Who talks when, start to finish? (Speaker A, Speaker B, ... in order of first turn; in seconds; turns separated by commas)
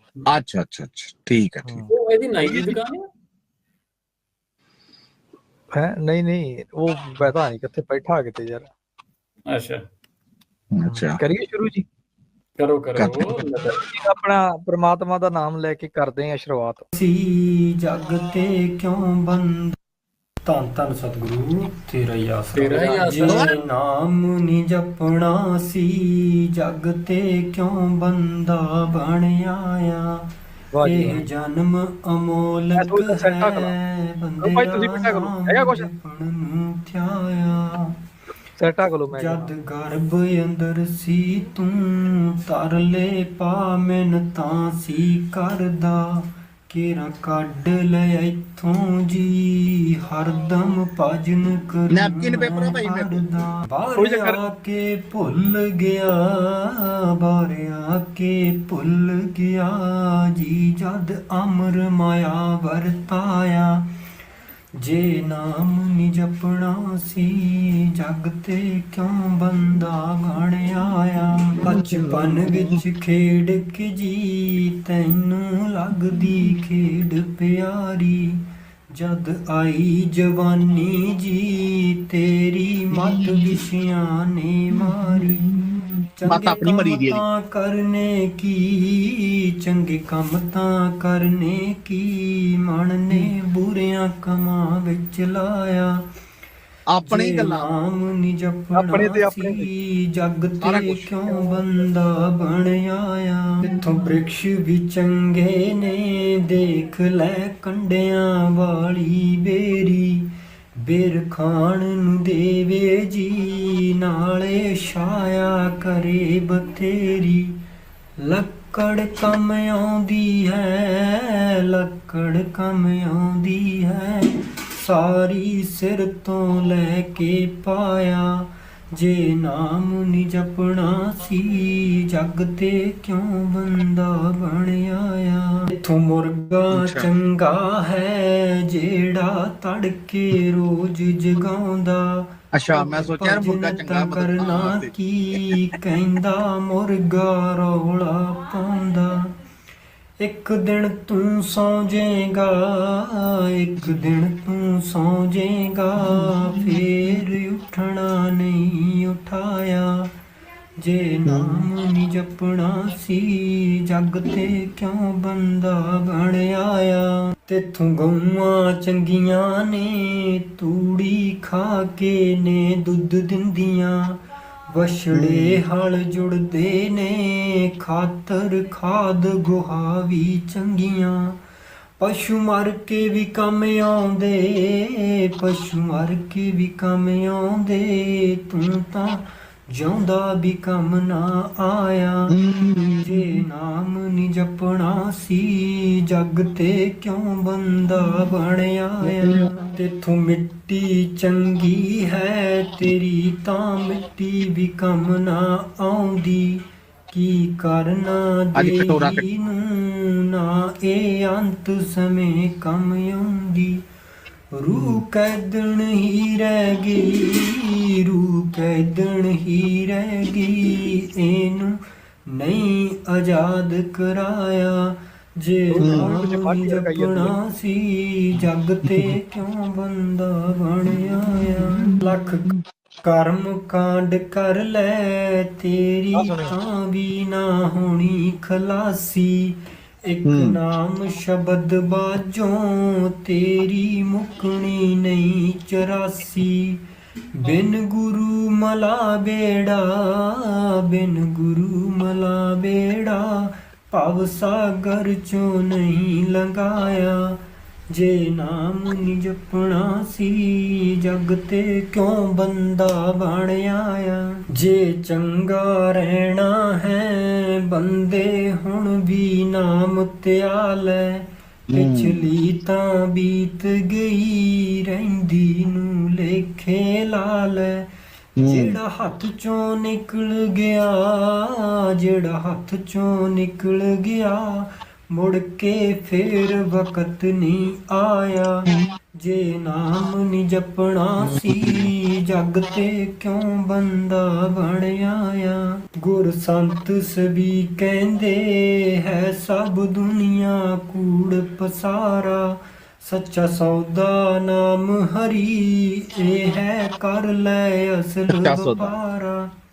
Speaker A: 0.3-1.8, Speaker B: 1.9-3.0, Speaker C: 2.4-2.8, Speaker C: 5.7-8.7, Speaker B: 9.5-9.8, Speaker A: 10.8-11.2, Speaker C: 10.9-11.8, Speaker B: 12.6-13.8, Speaker A: 13.0-13.3, Speaker C: 13.7-16.9, Speaker D: 16.9-19.8, Speaker D: 20.4-30.3, Speaker B: 22.5-23.6, Speaker A: 23.2-23.6, Speaker C: 30.7-31.2, Speaker D: 30.8-38.0, Speaker C: 32.8-33.7, Speaker C: 34.4-35.9, Speaker C: 38.6-39.5, Speaker D: 39.2-63.9, Speaker A: 51.9-53.2, Speaker C: 54.0-54.4, Speaker D: 64.8-85.5, Speaker A: 71.7-72.8, Speaker A: 83.0-83.6, Speaker A: 84.8-87.2, Speaker D: 86.2-96.0, Speaker A: 96.9-97.7, Speaker D: 97.1-117.6, Speaker C: 98.8-99.7, Speaker A: 100.6-101.6, Speaker D: 118.2-149.3, Speaker A: 136.7-137.1, Speaker A: 142.5-144.9, Speaker D: 150.2-160.1, Speaker A: 156.1-156.8, Speaker D: 160.8-181.4, Speaker A: 161.3-161.7, Speaker A: 175.1-175.6, Speaker D: 182.0-192.3, Speaker A: 192.3-193.4, Speaker D: 193.0-213.8, Speaker A: 199.0-199.7, Speaker A: 208.6-209.2, Speaker D: 214.6-232.5, Speaker C: 225.7-227.3, Speaker A: 225.8-226.1, Speaker A: 231.8-232.6, Speaker D: 233.0-246.8, Speaker C: 236.2-236.5, Speaker A: 240.3-240.6, Speaker D: 247.4-257.4, Speaker D: 257.9-277.9, Speaker A: 271.7-272.2, Speaker A: 278.4-278.8, Speaker D: 278.4-309.5, Speaker A: 291.3-291.9, Speaker A: 308.3-308.9